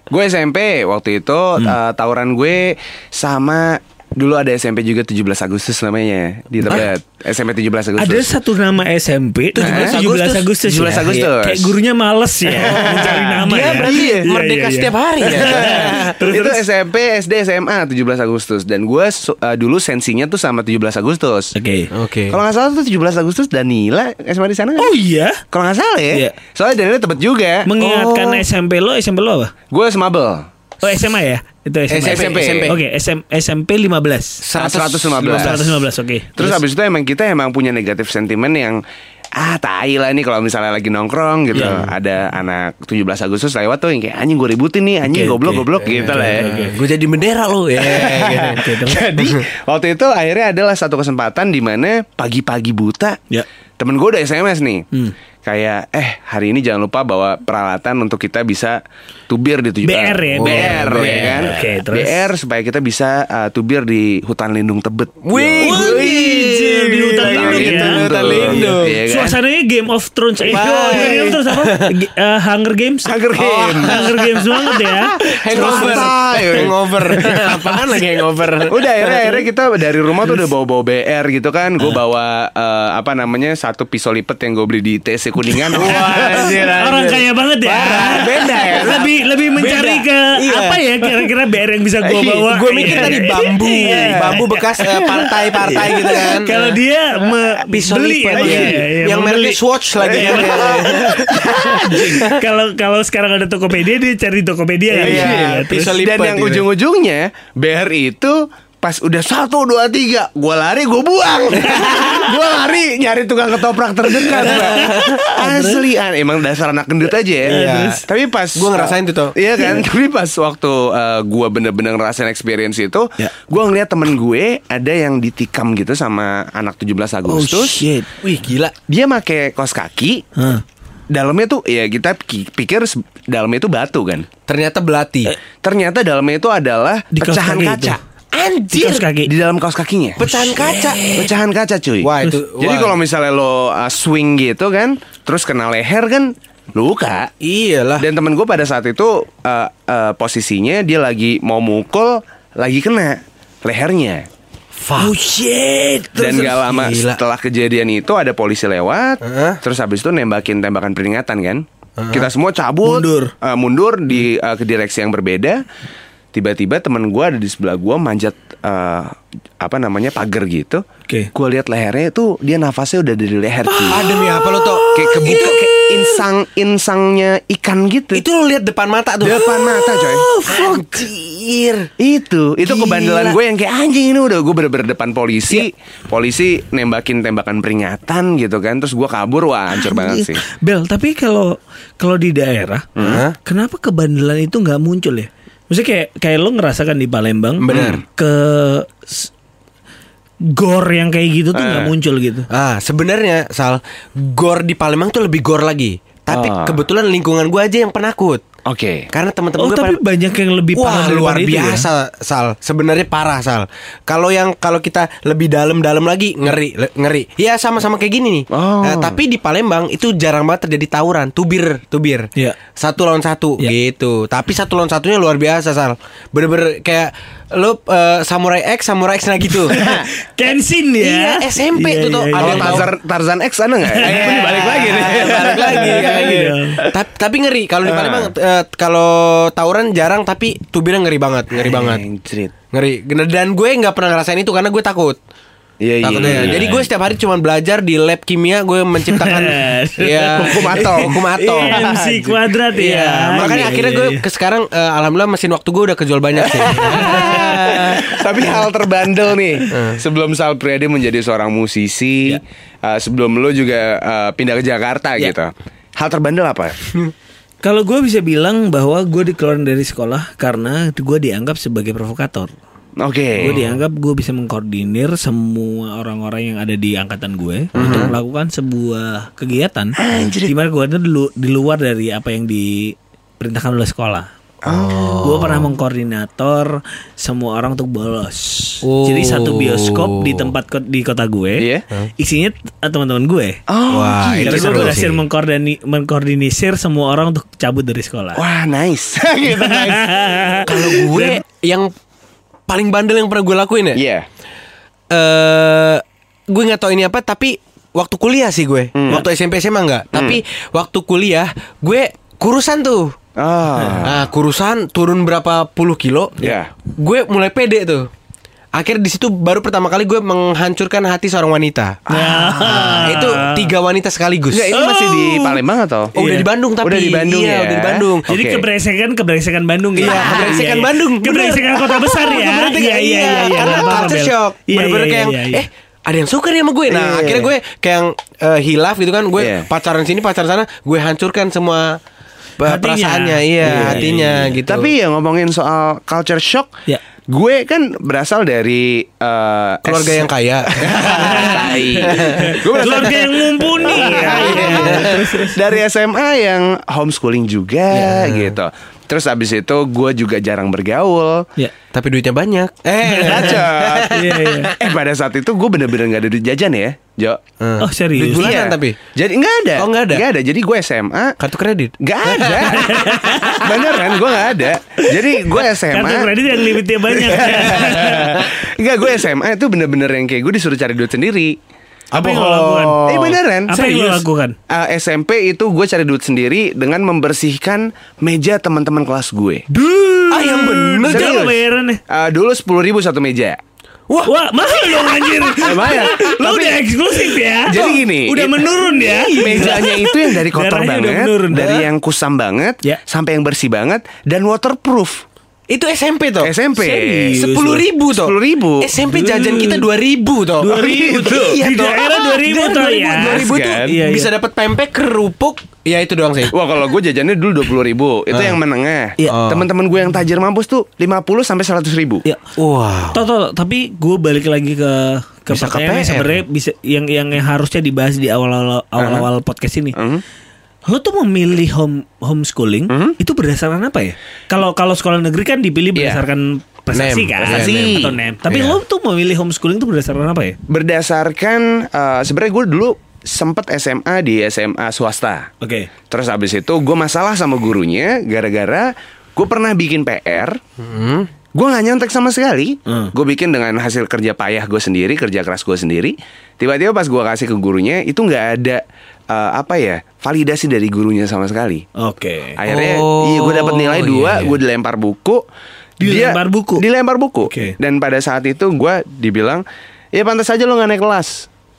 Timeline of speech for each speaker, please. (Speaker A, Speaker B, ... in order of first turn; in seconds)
Speaker A: 0.1-8.3, 9.6-9.9, 10.6-11.7, 12.6-14.3, 15.3-21.5, 22.3-24.9, 25.5-27.8, 29.7-30.5, 32.0-32.7, 34.5-35.7, 36.4-38.8, 39.4-46.5, 47.8-53.2, 53.8-54.9, 55.4-66.2, 67.2-69.4, 70.9-71.3, 73.1-74.1, 75.5-77.5, 78.7-87.2, 87.8-89.0, 92.0-93.2, 93.9-94.4, 98.3-98.7, 100.0-102.2, 105.0-127.9, 128.9-130.2, 131.1-134.3, 135.6-138.0, 139.2-147.3, 148.0-154.2, 156.2-165.6, 166.3-174.1, 174.9-178.2, 179.2-180.4, 182.0-190.4, 192.9-193.2, 197.7-198.0, 201.5-201.9, 206.3-206.8, 208.7-209.1, 218.5-219.2, 229.7-230.1, 232.4-237.0, 237.8-238.3, 241.5-242.5, 245.8-246.9, 250.4-252.3, 256.4-266.8, 273.0-273.6, 277.8-278.1, 280.0-280.5, 284.6-285.4, 291.6-291.8, 293.7-295.1, 298.4-300.1, 303.9-304.2, 308.9-309.2, 310.1-310.4, 313.4-314.2, 316.4-316.7, 322.1-323.0, 324.5-326.1, 326.8-328.6, 336.9-337.5, 339.4-339.7, 343.6-346.7, 347.3-350.3, 350.8-361.5, 363.2-367.4, 368.3-371.4, 372.0-376.5, 377.2-381.6, 383.0-384.2, 384.7-389.6, 391.1-391.5, 392.1-393.6, 395.6-396.8, 397.6-398.7, 399.4-405.2, 406.4-407.4, 408.1-408.9, 410.7-411.6, 413.2-413.9, 416.5-422.2, 429.0-429.2, 429.9-430.2, 432.9-433.2, 435.9-436.2, 437.4-438.1, 440.7-445.5, 446.1-450.6, 451.5-461.9, 462.6-465.4, 466.0-471.5
Speaker B: 8.0-16.6, 21.5-21.9, 24.8-25.4, 27.6-29.5, 30.8-34.4, 35.3-36.5, 45.1-46.8, 48.5-49.1, 59.8-62.3, 65.6-73.1, 73.8-76.2, 85.7-105.9, 111.6-112.2, 114.4-115.8, 117.5-118.0, 127.3-128.0, 130.3-130.6, 137.1-138.0, 138.7-139.3, 140.7-141.2, 155.0-156.6, 162.8-163.3, 173.7-175.5, 180.2-181.0, 189.7-192.9, 193.4-199.3, 200.5-202.5, 209.6-211.9, 229.8-232.9, 233.8-234.8, 235.6-236.8, 249.1-254.2, 256.7-258.2, 267.6-272.5, 273.4-284.3, 285.2-291.6, 292.2-293.6, 294.4-298.4, 299.6-301.4, 313.8-314.1, 322.1-323.7, 324.7-325.1, 326.1-326.5, 328.3-335.6, 342.6-344.1, 351.0-355.6, 363.1-364.7, 367.8-368.6, 372.5-373.8, 375.9-378.5, 382.1-383.1, 383.7-384.6, 389.7-392.0, 394.2-401.8, 406.8-407.9, 409.1-409.8, 410.6-414.3, 423.1-429.9, 430.9-440.6, 445.6-445.9, 452.9-453.1, 462.0-462.6, 466.0-466.8, 467.4-467.8
Speaker C: 9.5-10.5, 12.6-16.1, 21.9-22.4, 27.8-28.4, 31.9-32.8, 34.4-35.8, 41.5-41.9, 45.8-48.6, 60.4-61.6, 65.2-69.0, 70.5-71.9, 73.4-79.4, 85.7-91.1, 92.5-96.5, 97.6-102.4, 104.9-106.7, 114.4-115.0, 117.4-118.0, 118.5-119.3, 128.2-128.7, 134.5-135.3, 138.3-139.1, 140.2-141.3, 142.0-143.0, 147.4-148.1, 154.8-155.1, 156.5-157.2, 159.2-159.6, 162.0-162.3, 173.8-176.2, 178.1-181.9, 182.6-183.4, 193.0-193.3, 197.6-198.0, 202.5-208.4, 209.1-210.0, 210.7-229.8, 231.0-232.9, 234.0-242.0, 242.7-245.2, 246.0-251.8, 252.7-258.1, 259.7-260.0, 277.8-278.1, 284.7-285.6, 288.8-290.5, 293.9-295.2, 300.6-301.9, 302.7-304.0, 305.1-313.1, 314.0-318.1, 318.8-322.0, 322.6-325.5, 326.1-328.3, 329.9-342.0, 342.6-344.9, 349.8-352.6, 353.9-355.3, 358.0-358.5, 361.9-364.6, 367.6-369.0, 369.8-370.2, 371.4-372.9, 382.1-383.4, 390.3-391.4, 394.1-396.3, 398.9-400.0, 401.5-401.9, 405.7-406.5, 407.3-416.6, 418.3-418.6, 419.3-419.7, 422.6-423.2, 425.5-426.4, 436.9-438.8, 450.8-451.3, 462.6-464.6